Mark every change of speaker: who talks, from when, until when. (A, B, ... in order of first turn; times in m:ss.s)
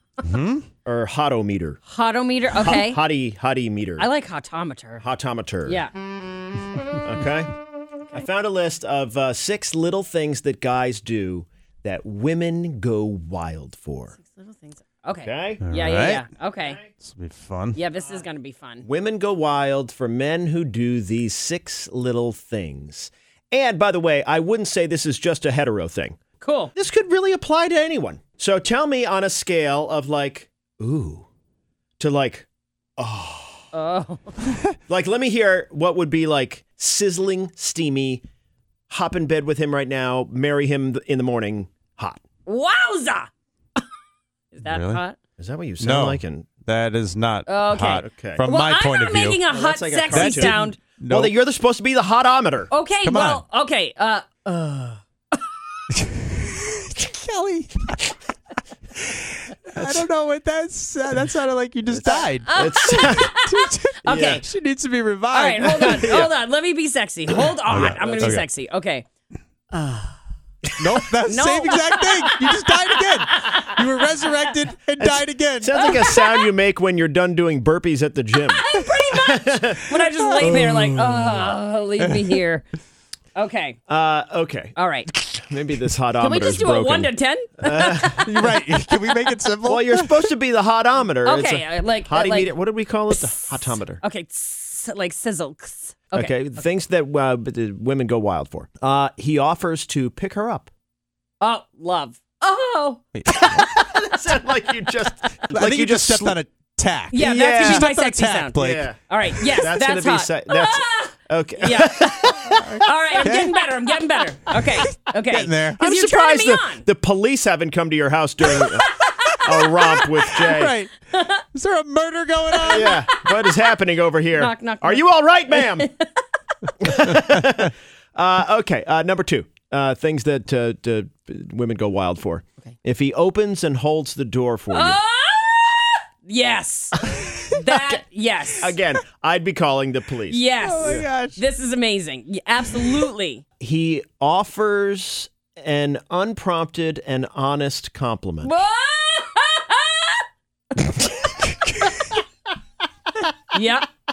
0:00.2-0:00.6 A
0:00.8-0:01.8 B
0:01.9-0:03.0 C
0:02.5-0:04.1 B
0:04.0-0:05.0 C
0:05.0-0:05.8 B
0:05.6-0:05.9 C
0:07.0-0:07.5 B
0:08.1-0:14.1 B
0:14.2-0:16.8 C
0:15.2-0:15.6 B
0:15.6-0:16.2 A
0:17.0-0:17.8 A
0:17.7-0:18.8 C
0:18.8-0:26.2 B
0:26.4-0:26.7 C
0:26.8-0:31.3 B
0:32.0-0:32.5 B
0:33.0-0:33.6 B
0:33.7-0:34.3 C
0:34.9-0:38.2 B
0:38.9-0:42.2 B
0:42.4-0:43.3 C
0:44.5-0:45.2 C
0:44.6-0:45.0 A
0:45.4-0:46.4 B
0:45.8-0:49.4 A
0:47.4-0:50.8 C
0:48.0-0:48.4 B
0:49.5-0:50.6 B
0:50.1-0:51.3 A
0:51.1-0:52.7 B
0:52.7-0:54.4 C
0:53.0-0:53.4 A
0:54.4-0:55.0 B
0:55.9-0:58.1 A
0:58.9-1:06.2 A
0:59.7-1:00.0 B
1:01.9-1:03.3 B
1:02.4-1:04.4 C
1:04.0-1:04.4 B
1:05.3-1:09.0 C
1:05.6-1:06.3 B
1:07.7-1:08.4 A
1:09.7-1:10.1 B
1:10.8-1:16.0 A
1:11.2-1:14.3 C
1:15.0-1:19.8 B
1:15.8-1:16.5 C
1:18.5-1:22.6 C
1:20.4-1:21.5 A
1:22.1-1:22.3 A
1:23.3-1:23.8 C
1:23.9-1:28.2 B
1:24.8-1:25.1 C
1:26.2-1:28.3 C
1:28.2-1:30.2 A
1:29.6-1:34.0 B
1:31.2-1:32.6 C
1:33.1-1:36.5 C
1:36.1-1:40.7 B
1:41.4-1:44.1 C
1:43.2-1:43.6 A
1:43.6-1:46.4 B
1:45.5-1:48.9 A
1:47.1-1:56.8 C
1:47.2-1:47.9 B
1:48.6-1:52.7 B
1:52.6-1:53.5 A
1:54.6-1:55.8 A
1:55.8-2:00.7 B
1:58.8-2:03.1 A
2:01.1-2:01.4 C
2:02.6-2:03.6 C
2:02.6-2:05.9 B
2:04.4-2:06.1 C
2:06.8-2:15.0 B
2:14.7-2:18.8 C
2:17.0-2:21.0 B
2:20.3-2:23.4 C
2:20.6-2:21.4 A
2:23.6-2:28.5 B
2:28.4-2:32.2 C
2:33.5-2:33.9 C